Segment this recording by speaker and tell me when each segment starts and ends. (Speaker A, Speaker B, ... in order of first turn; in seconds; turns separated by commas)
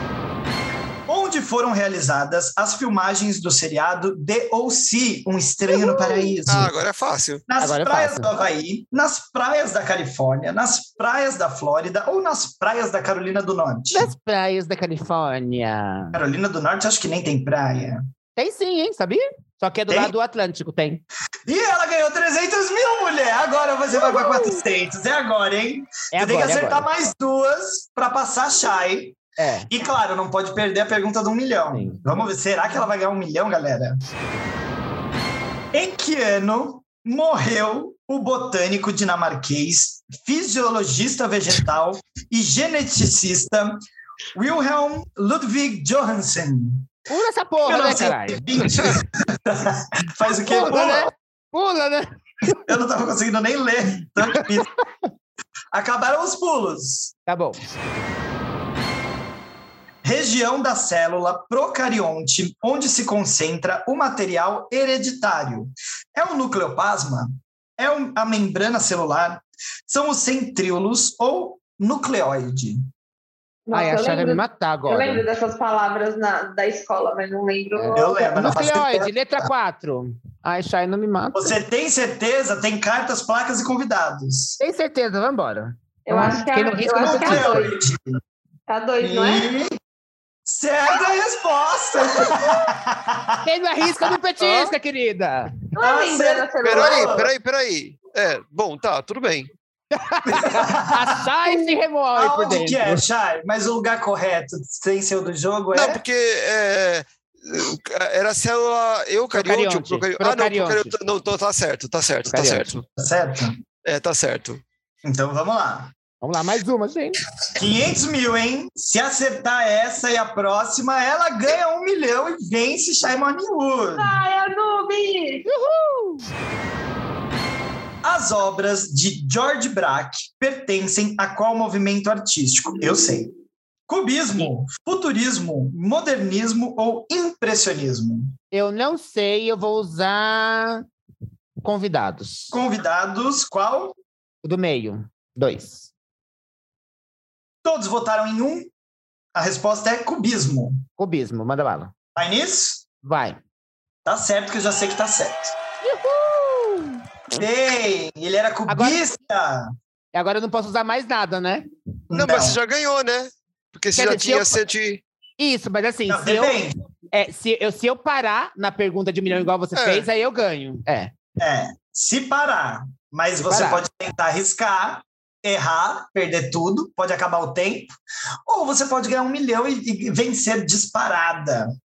Speaker A: 1.1-6.7, Speaker B: 5.7-6.4, Speaker C: 6.5-7.4, Speaker A: 7.5-14.1, Speaker D: 7.6-8.3, Speaker D: 13.9-16.2, Speaker A: 16.1-18.0, Speaker D: 18.4-21.0, Speaker A: 21.4-29.2, Speaker D: 24.0-24.6, Speaker D: 26.1-26.9, Speaker D: 29.4-29.7, Speaker A: 29.7-34.0, Speaker D: 31.7-32.0, Speaker A: 35.7-43.8, Speaker A: 44.3-46.9, Speaker D: 47.1-48.9, Speaker A: 47.6-51.1, Speaker D: 50.3-52.6, Speaker A: 52.6-54.7, Speaker D: 54.3-54.7, Speaker A: 55.7-57.1, Speaker D: 57.3-57.6, Speaker A: 60.0-72.9, Speaker B: 73.7-78.5, Speaker D: 73.7-75.2, Speaker A: 77.9-79.5, Speaker D: 78.3-81.5, Speaker A: 81.3-84.6, Speaker D: 84.6-87.7, Speaker B: 86.0-87.7, Speaker A: 87.0-88.2, Speaker B: 88.7-89.5, Speaker A: 89.0-89.8, Speaker A: 90.4-93.4, Speaker D: 93.4-95.6, Speaker B: 94.4-94.7, Speaker B: 95.7-97.2, Speaker A: 95.8-97.3, Speaker C: 96.6-99.5, Speaker D: 99.9-103.0, Speaker A: 100.2-101.2, Speaker A: 102.2-106.0, Speaker C: 105.7-112.9, Speaker D: 109.3-111.0, Speaker D: 112.3-112.8, Speaker A: 113.0-113.6, Speaker C: 113.8-114.6, Speaker A: 115.0-115.9, Speaker D: 116.2-117.2, Speaker A: 117.5-124.2, Speaker B: 124.0-125.5, Speaker D: 125.5-126.3, Speaker A: 128.0-133.3, Speaker A: 133.9-138.3, Speaker D: 138.5-140.8, Speaker D: 141.6-142.6, Speaker A: 142.5-143.9, Speaker D: 144.4-145.9, Speaker A: 147.6-148.7, Speaker A: 149.3-150.8, Speaker D: 151.0-151.9, Speaker A: 152.2-152.8, Speaker D: 153.0-153.4, Speaker A: 154.0-155.5, Speaker D: 155.8-157.4, Speaker A: 157.3-159.7, Speaker D: 158.7-159.0, Speaker D: 160.1-161.6, Speaker A: 162.1-162.6, Speaker C: 162.1-165.0, Speaker D: 163.9-164.6, Speaker D: 165.4-166.6, Speaker A: 166.1-166.7, Speaker D: 167.1-171.1, Speaker C: 169.7-170.1, Speaker A: 171.4-177.9, Speaker D: 173.4-173.8, Speaker A: 178.5-181.7